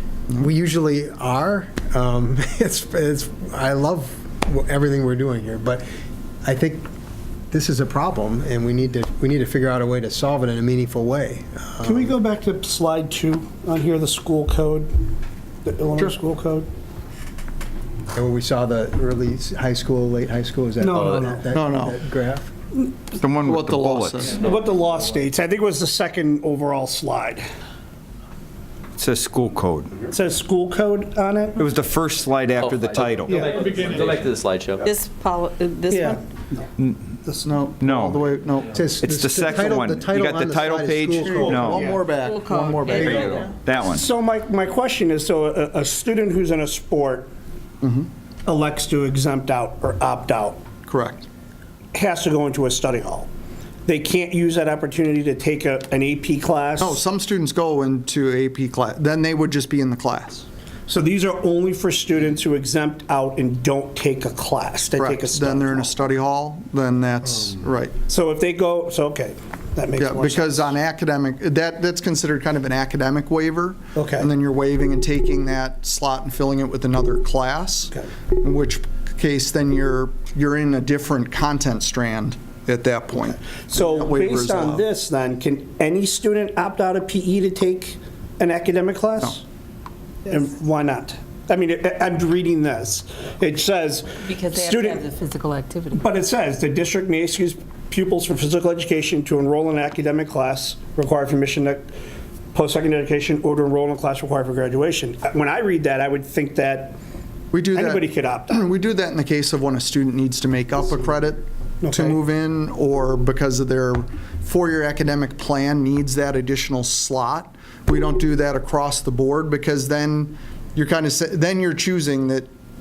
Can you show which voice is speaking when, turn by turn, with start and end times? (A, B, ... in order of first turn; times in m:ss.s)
0:00.3-0:05.8 A
0:06.4-0:06.9 A
0:07.5-0:12.1 A
0:11.8-0:14.9 B
0:15.6-0:16.7 B
0:18.1-0:22.5 A
0:20.8-0:21.5 B
0:21.5-0:22.0 C
0:23.1-0:24.3 D
0:23.4-0:24.4 C
0:24.4-0:27.4 B
0:29.0-0:29.9 D
0:30.1-0:31.6 B
0:31.6-0:33.6 D
0:32.6-0:34.8 E
0:33.2-0:33.6 B
0:34.8-0:36.2 F
0:35.9-0:36.2 B
0:36.8-0:37.1 D
0:37.2-0:37.5 B
0:37.4-0:38.8 C
0:37.8-0:38.3 D
0:38.7-0:41.8 A
0:38.8-0:41.9 D
0:41.2-0:42.7 C
0:41.2-0:42.0 B
0:42.2-0:43.5 F
0:42.5-0:43.1 A
0:42.8-0:47.3 B
0:42.9-0:44.0 D
0:47.8-0:48.1 C
0:48.4-0:50.6 B
0:50.8-0:51.2 C
0:51.9-0:53.3 B
0:53.8-0:57.0 B
0:56.8-1:00.4 C
1:00.9-1:05.9 B
1:05.0-1:07.9 C
1:08.1-1:10.7 B
1:10.0-1:24.9 C
1:13.9-1:14.3 B
1:23.7-1:29.4 B
1:30.3-1:35.0 B
1:34.2-1:36.0 F
1:35.9-1:41.8 B
1:42.5-1:47.0 B
1:47.5-2:02.5 C
1:47.7-1:48.7 B
1:51.8-1:52.2 B